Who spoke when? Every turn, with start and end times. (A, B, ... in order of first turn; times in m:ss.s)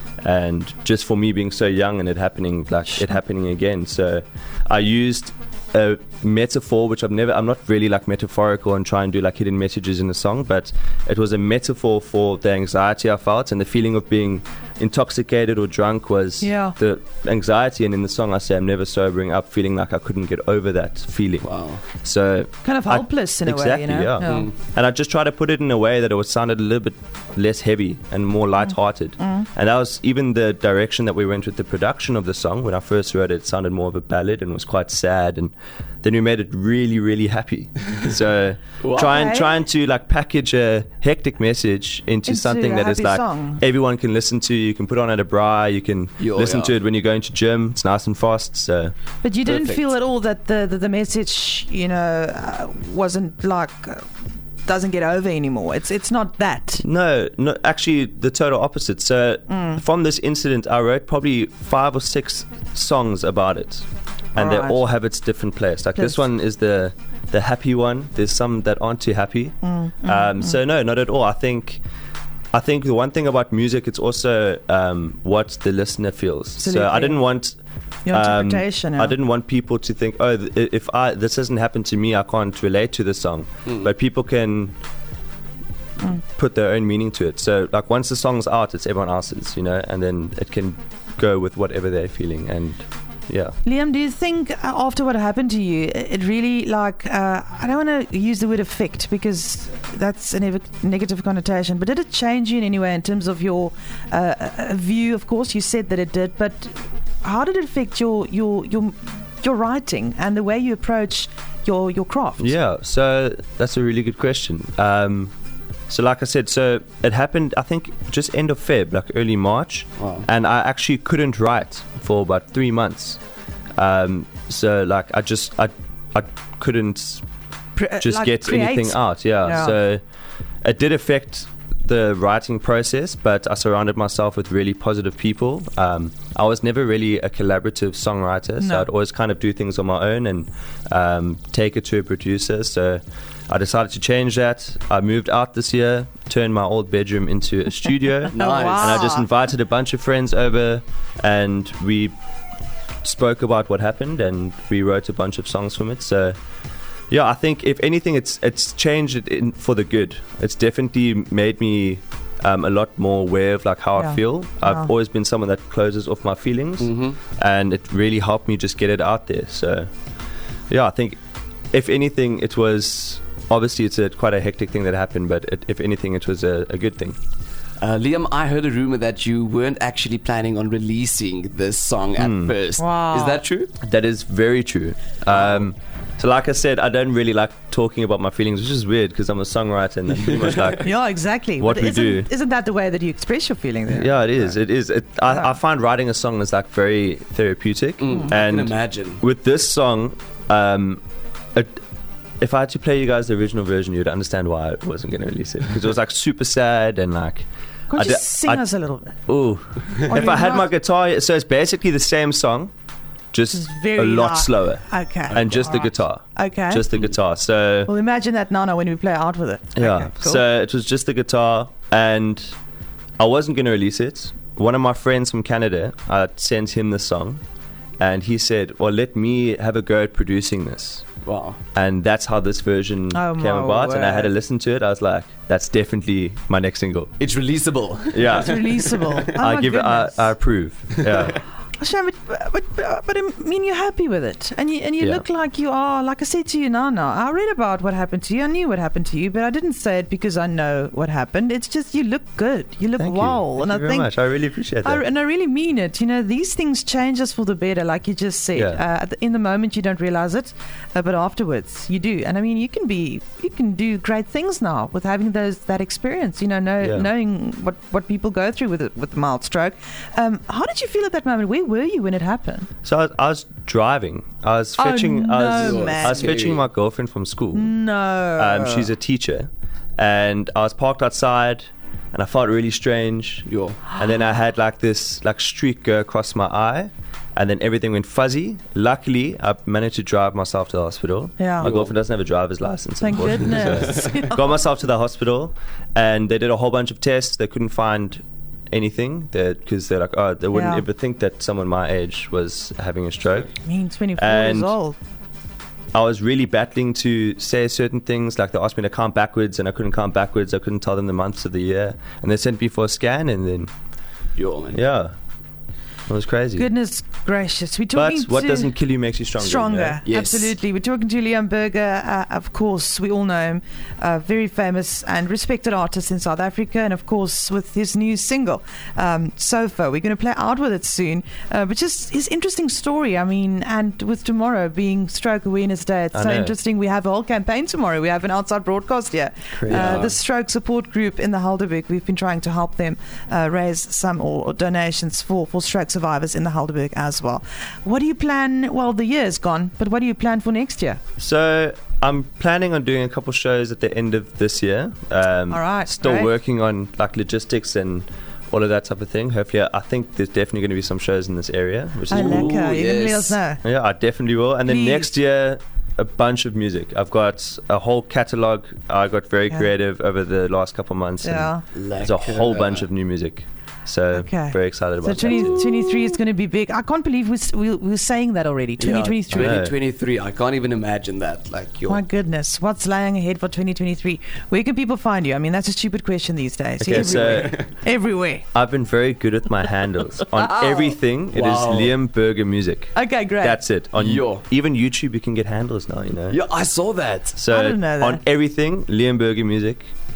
0:00.2-0:35.5 A
0:16.4-0:16.8 B
0:21.4-0:21.8 C
0:22.6-0:24.5 B
0:24.2-0:24.5 C
0:36.0-0:48.9 A
0:38.8-0:39.2 C
0:39.0-0:39.5 B
0:42.2-0:43.6 B
0:46.2-0:46.7 C
0:49.2-0:54.0 B
0:49.4-0:49.8 C
0:54.6-0:56.8 B
0:56.8-1:11.8 A
0:59.5-0:59.8 B
1:04.4-1:04.8 B
1:06.0-1:06.2 B
1:09.6-1:10.6 B
1:12.5-1:17.6 A
1:16.6-1:17.2 B
1:18.0-1:19.1 B
1:18.1-1:24.8 A
1:26.1-1:33.6 A
1:33.6-1:52.5 B
1:52.4-1:55.3 A
1:55.9-2:03.2 A
2:00.0-2:00.2 C
2:03.8-2:07.2 A
2:07.8-2:09.7 B
2:08.0-2:10.0 A
2:10.6-2:32.1 A
2:18.6-2:18.9 B
2:28.3-2:29.0 C
2:28.4-2:29.2 B
2:33.0-2:36.4 A
2:37.1-2:49.9 A
2:44.0-2:44.9 B
2:46.8-2:47.2 C
2:50.7-2:51.2 A
2:51.7-2:57.2 A
2:57.8-3:03.7 C
3:02.2-3:02.5 A
3:02.8-3:03.4 B
3:03.8-3:10.9 A
3:05.3-3:05.6 C
3:10.8-3:14.5 B
3:11.6-3:12.3 A
3:13.9-3:21.0 A
3:18.0-3:19.2 C
3:21.5-3:21.8 A
3:22.4-3:28.6 A
3:27.9-3:29.2 B
3:29.3-3:32.7 A
3:30.0-3:30.7 B
3:33.3-3:37.9 A
3:33.5-3:36.8 B
3:37.9-3:40.4 B
3:39.7-3:42.5 A
3:43.2-3:47.4 A
3:48.0-3:51.1 A
3:51.2-3:51.6 C
3:51.7-3:57.1 A
3:53.1-3:54.3 B
3:57.2-3:59.3 C
3:58.1-3:58.8 A
3:58.3-4:00.3 B
3:59.3-4:01.4 A
4:01.0-4:01.4 C
4:01.8-4:14.1 B
4:05.0-4:05.2 A
4:13.0-4:15.0 A
4:14.8-4:32.7 B
4:18.5-4:18.8 A
4:26.8-4:27.1 A
4:32.8-4:37.7 A
4:34.8-4:36.3 B
4:35.4-4:36.6 C
4:37.5-4:38.9 B
4:38.4-5:03.6 A
4:43.5-4:43.8 C
4:51.4-4:51.7 B
4:51.6-4:51.9 C
4:53.0-4:54.4 B
4:53.5-4:53.9 C
5:00.5-5:00.8 B
5:03.6-5:05.0 B
5:04.2-5:04.8 A
5:05.9-5:13.7 A
5:14.4-5:14.8 C
5:14.7-5:15.1 A
5:16.1-5:16.7 A
5:16.6-5:18.7 B
5:17.9-5:20.0 A
5:19.4-5:51.0 B
5:20.0-5:20.5 C
5:36.1-5:36.6 A
5:39.5-5:40.0 A
5:39.7-5:40.2 C
5:51.2-6:02.6 A
5:55.5-5:56.3 B
6:02.1-6:03.4 C
6:02.1-6:03.6 B
6:03.6-6:15.6 A
6:04.7-6:05.1 B
6:11.2-6:11.6 B
6:11.7-6:12.8 C
6:14.1-6:19.6 B
6:18.8-6:22.0 C
6:18.9-6:19.7 A
6:21.8-6:28.4 B
6:26.8-6:27.6 A
6:26.9-6:27.7 C
6:28.5-6:36.4 A
6:30.3-6:30.9 B
6:31.3-6:32.0 C
6:32.9-6:33.6 B
6:33.9-6:34.4 C
6:36.3-6:37.4 C
6:37.4-6:39.8 A
6:37.5-6:38.2 B